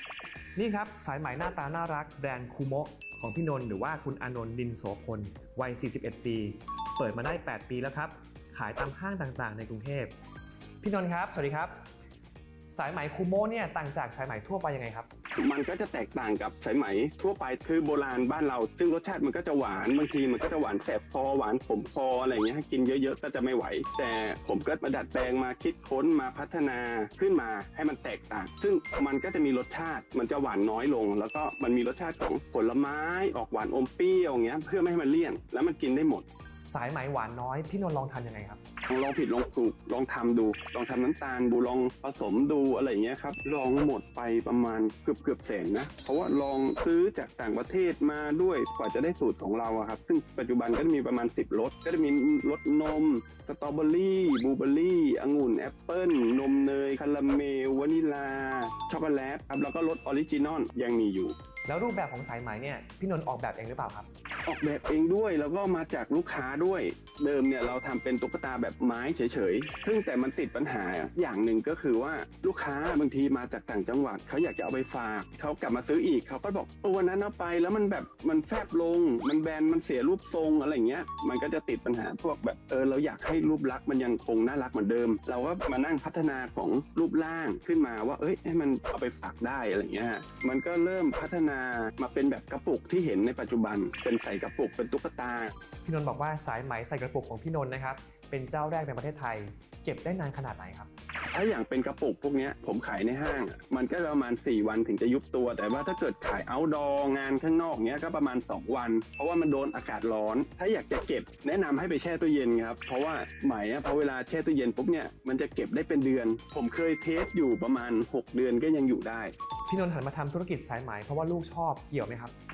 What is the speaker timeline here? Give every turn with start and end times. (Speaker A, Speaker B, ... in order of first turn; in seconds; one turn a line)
Speaker A: 0.6-10.1
Speaker A: 10.8-11.7
Speaker A: 12.7-15.1
Speaker B: 15.4-36.2
Speaker A: 36.7-38.6
Speaker B: 38.9-61.3
Speaker A: 61.6-64.1
Speaker B: 64.5-95.5
Speaker A: 95.8-100.9
Speaker B: 101.3-119.3
Speaker A: 119.7-122.3